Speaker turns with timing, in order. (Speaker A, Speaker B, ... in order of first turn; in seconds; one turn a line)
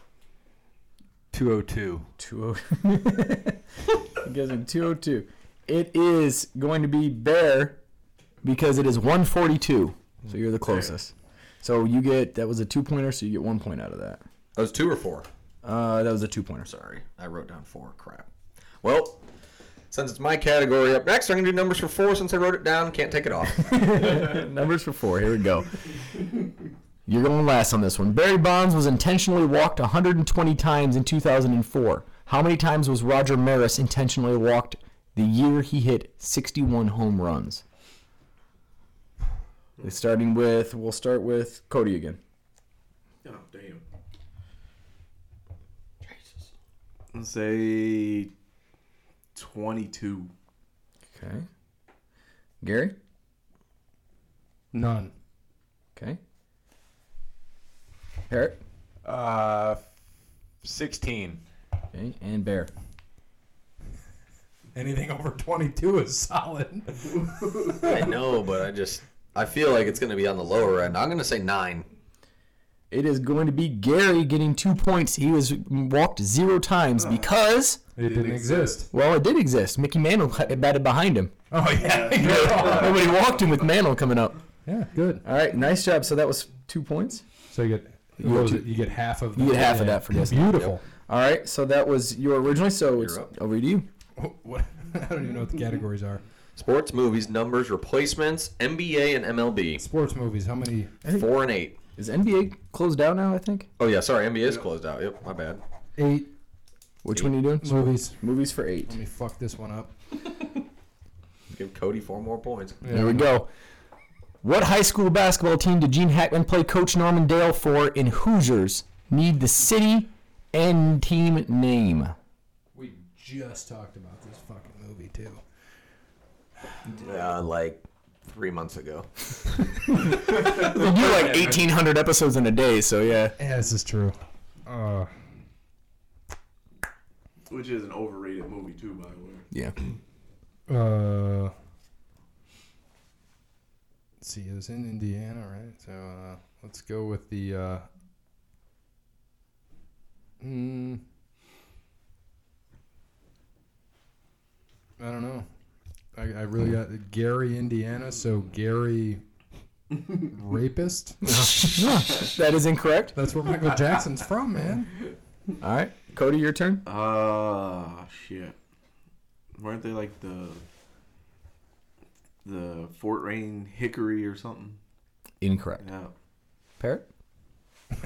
Speaker A: 1.3-2.1
Speaker B: 2.2-3.6
Speaker B: 4.2-7.8
Speaker B: 8.4-14.2
Speaker C: 14.6-15.3
Speaker B: 15.6-16.7
Speaker C: 16.6-18.3
Speaker C: 18.8-19.2
Speaker C: 19.9-24.3
Speaker B: 23.7-25.7
Speaker B: 27.1-37.6
Speaker B: 39.8-42.2
Speaker D: 43.2-43.8
Speaker C: 46.0-46.5
Speaker D: 47.1-48.3
Speaker D: 49.3-50.3
Speaker B: 51.1-51.5
Speaker B: 52.6-53.0
Speaker E: 54.7-55.1
Speaker B: 58.3-58.6
Speaker A: 59.0-59.8
Speaker A: 60.6-61.4
Speaker B: 61.9-62.7
Speaker E: 64.8-68.1
Speaker C: 67.8-71.9
Speaker B: 72.9-77.8
Speaker D: 77.0-77.3
Speaker E: 78.0-78.9
Speaker D: 78.0-78.8
Speaker B: 78.9-81.3
Speaker E: 81.5-83.0
Speaker D: 81.8-83.0
Speaker B: 82.2-84.4
Speaker E: 84.7-85.2
Speaker B: 85.2-87.2
Speaker E: 87.5-90.8
Speaker B: 88.2-88.7
Speaker B: 89.3-93.9
Speaker C: 93.0-93.3
Speaker E: 94.2-96.2
Speaker C: 96.6-99.8
Speaker E: 99.8-101.0
Speaker C: 101.1-101.8
Speaker B: 102.0-103.7
Speaker C: 103.8-105.6
Speaker E: 106.0-106.3
Speaker B: 107.0-108.9
Speaker E: 107.6-108.2
Speaker E: 108.9-109.9
Speaker C: 111.5-113.1
Speaker E: 112.8-113.3
Speaker B: 112.9-113.5
Speaker B: 114.4-122.2
Speaker E: 122.8-125.4
Speaker C: 126.9-131.6
Speaker B: 130.1-133.3
Speaker E: 133.4-135.1
Speaker D: 137.5-139.5
Speaker E: 140.7-141.5
Speaker E: 144.2-147.9
Speaker E: 150.4-151.0
Speaker E: 155.0-155.5
Speaker E: 156.2-159.2
Speaker E: 160.1-161.3
Speaker B: 161.2-163.2
Speaker E: 163.2-165.0
Speaker B: 165.6-166.8
Speaker D: 166.8-168.6
Speaker D: 169.6-170.6
Speaker D: 172.4-174.8
Speaker B: 175.4-175.8
Speaker D: 175.8-176.1
Speaker B: 176.8-177.1